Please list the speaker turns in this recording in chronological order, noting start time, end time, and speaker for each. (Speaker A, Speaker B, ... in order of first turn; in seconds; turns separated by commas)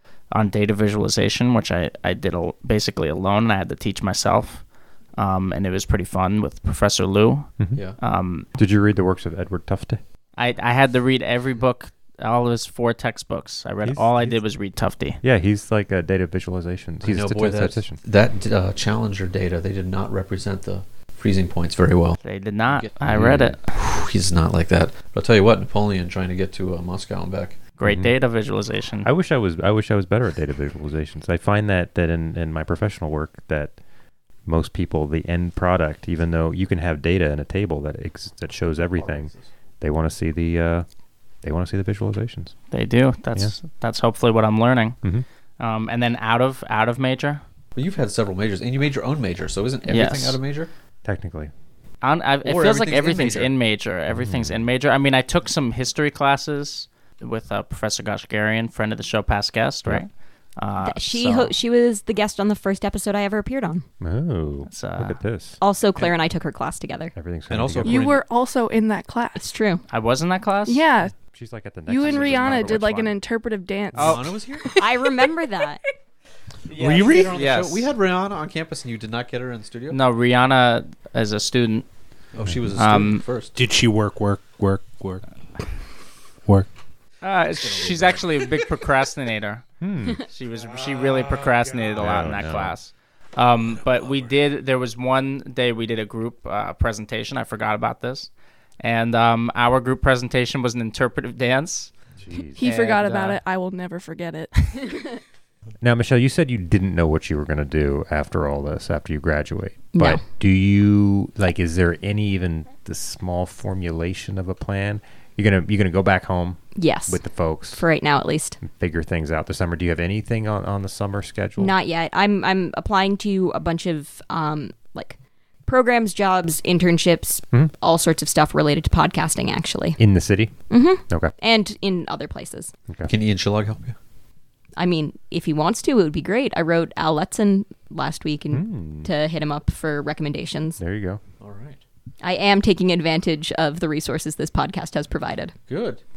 Speaker A: 0.3-8.5, Speaker B: 7.6-7.9, Speaker B: 8.5-10.0, Speaker A: 10.3-15.2, Speaker B: 13.8-14.4, Speaker B: 15.2-18.0, Speaker C: 17.0-27.6, Speaker A: 22.2-23.8, Speaker B: 23.1-23.6, Speaker A: 27.8-29.1, Speaker B: 27.8-28.1, Speaker B: 29.0-33.8, Speaker B: 34.4-40.9, Speaker C: 39.0-39.5, Speaker B: 41.4-42.6, Speaker A: 42.7-45.0, Speaker A: 45.6-47.4, Speaker C: 47.7-50.7, Speaker A: 49.9-50.4, Speaker B: 51.0-51.5, Speaker A: 52.0-61.5, Speaker C: 52.4-53.5, Speaker B: 54.1-54.6, Speaker D: 60.8-63.9, Speaker B: 64.0-65.6, Speaker A: 64.7-65.2, Speaker D: 65.6-67.1, Speaker B: 67.1-68.0, Speaker C: 67.5-68.2, Speaker E: 67.8-69.5, Speaker D: 69.3-69.8, Speaker A: 69.9-70.8, Speaker E: 70.7-71.2, Speaker B: 71.3-73.1, Speaker E: 71.9-74.9, Speaker C: 72.0-72.4, Speaker A: 72.3-72.7, Speaker A: 73.9-74.2, Speaker C: 73.9-74.7, Speaker D: 74.8-75.8, Speaker A: 76.7-77.9, Speaker F: 76.7-77.3, Speaker C: 76.8-80.0, Speaker A: 79.9-81.9, Speaker C: 82.3-83.5, Speaker A: 82.7-83.2, Speaker F: 83.5-85.2, Speaker A: 87.2-101.9, Speaker C: 87.6-88.2, Speaker B: 89.8-90.2, Speaker B: 92.0-92.8, Speaker B: 102.2-102.6, Speaker E: 102.6-105.2, Speaker A: 102.6-103.4, Speaker B: 105.8-117.8, Speaker D: 109.9-110.2, Speaker D: 116.7-118.6, Speaker B: 118.6-121.7, Speaker D: 121.6-130.0, Speaker B: 130.0-131.3, Speaker D: 130.7-132.7, Speaker C: 133.1-133.9, Speaker D: 134.8-140.8, Speaker B: 138.5-139.1, Speaker B: 140.8-141.2, Speaker C: 141.4-141.8, Speaker D: 142.2-145.5, Speaker C: 145.7-146.0